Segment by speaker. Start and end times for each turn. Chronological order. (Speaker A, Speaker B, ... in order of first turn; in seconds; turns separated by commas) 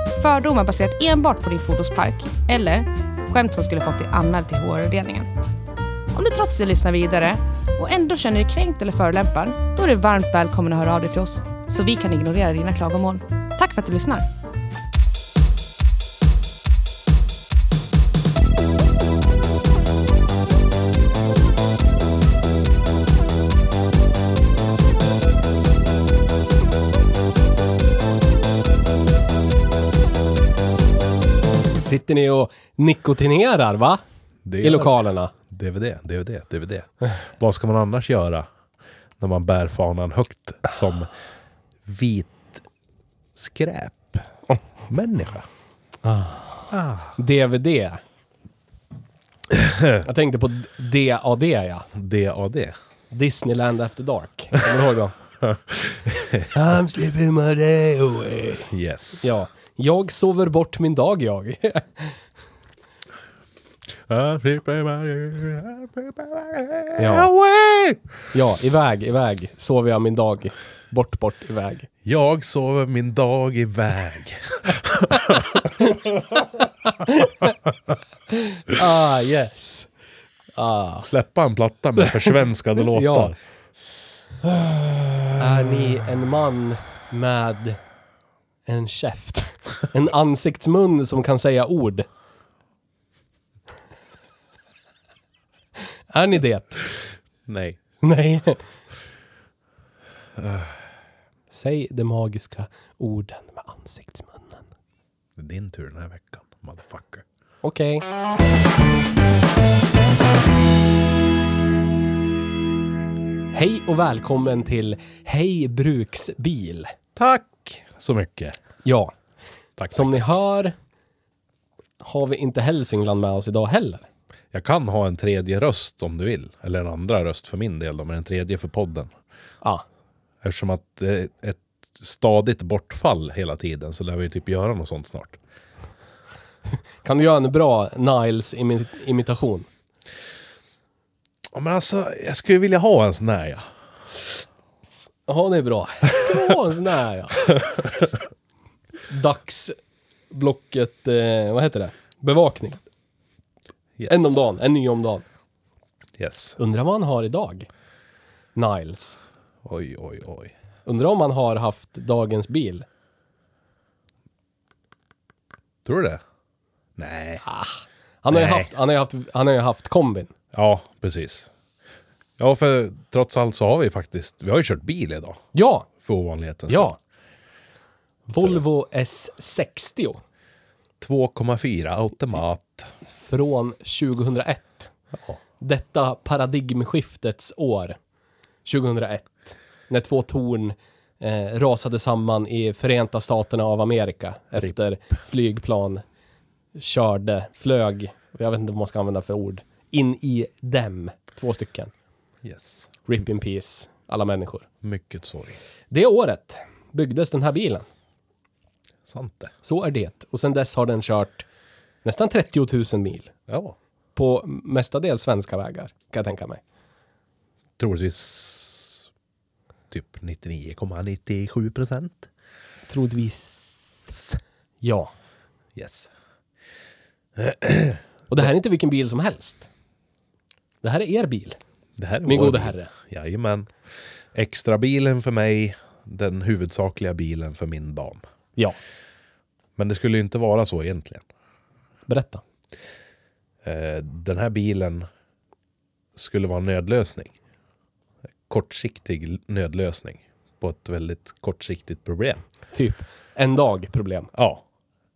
Speaker A: 0.2-5.3, Speaker A: 6.1-14.2, Speaker B: 31.8-34.0, Speaker C: 34.5-38.5, Speaker B: 34.6-35.3, Speaker C: 39.2-41.1, Speaker C: 41.9-42.6, Speaker C: 43.3-44.2, Speaker C: 44.9-45.5, Speaker B: 46.0-48.0, Speaker C: 46.7-47.1, Speaker C: 49.5-50.0, Speaker B: 50.0-51.9, Speaker C: 51.9-52.7, Speaker B: 53.1-55.2, Speaker C: 55.4-56.5, Speaker B: 56.5-62.2, Speaker C: 58.7-59.3, Speaker C: 64.1-68.2, Speaker B: 67.0-67.3, Speaker B: 68.3-71.9, Speaker C: 72.0-75.9, Speaker B: 76.6-77.5, Speaker B: 78.3-79.9, Speaker B: 80.6-81.0, Speaker C: 81.0-83.3, Speaker B: 82.0-83.3, Speaker C: 84.4-85.9, Speaker B: 85.4-87.8, Speaker B: 88.7-92.1, Speaker B: 96.1-96.9, Speaker C: 97.5-97.8, Speaker B: 98.0-98.6, Speaker C: 100.4-100.8, Speaker B: 101.5-104.7, Speaker C: 105.4-107.2, Speaker B: 107.6-108.1, Speaker B: 113.5-116.9, Speaker C: 117.2-118.6, Speaker B: 118.8-119.1, Speaker C: 119.8-120.3, Speaker B: 119.9-120.7, Speaker B: 122.0-124.0, Speaker C: 124.5-129.1, Speaker C: 130.4-135.4, Speaker B: 137.0-139.7, Speaker C: 141.5-143.6, Speaker B: 145.3-147.5, Speaker B: 149.1-149.8, Speaker B: 150.3-152.8, Speaker C: 154.0-154.4, Speaker B: 154.1-155.2, Speaker C: 156.2-156.6, Speaker B: 156.6-157.7, Speaker B: 158.5-159.2, Speaker C: 159.6-160.5, Speaker B: 160.8-162.8, Speaker C: 165.8-166.2, Speaker C: 167.0-167.4, Speaker B: 167.4-170.3, Speaker C: 168.3-168.7, Speaker C: 170.5-171.5, Speaker C: 172.4-175.4, Speaker B: 175.5-175.9, Speaker C: 176.0-176.9, Speaker B: 176.7-177.0, Speaker B: 178.3-180.2, Speaker C: 178.3-178.6, Speaker C: 181.0-182.9, Speaker B: 183.0-184.9, Speaker B: 185.6-188.0, Speaker B: 188.6-196.0, Speaker B: 196.8-201.9, Speaker C: 202.4-202.9, Speaker B: 203.1-204.7, Speaker C: 204.8-205.6, Speaker B: 205.9-207.9, Speaker C: 209.1-209.5, Speaker B: 209.6-211.4, Speaker B: 212.0-213.3, Speaker C: 213.5-213.8, Speaker B: 214.1-216.6, Speaker C: 217.8-219.1, Speaker C: 219.9-222.3, Speaker B: 222.9-225.1, Speaker C: 225.8-226.1, Speaker C: 227.4-228.0, Speaker B: 228.3-229.7, Speaker B: 230.8-231.6, Speaker C: 232.0-233.7, Speaker B: 232.2-232.9, Speaker C: 234.3-238.2, Speaker C: 239.8-241.2, Speaker B: 242.1-242.4, Speaker C: 243.6-245.1, Speaker C: 246.2-247.3, Speaker C: 248.5-252.4, Speaker B: 252.7-254.3, Speaker C: 254.3-254.6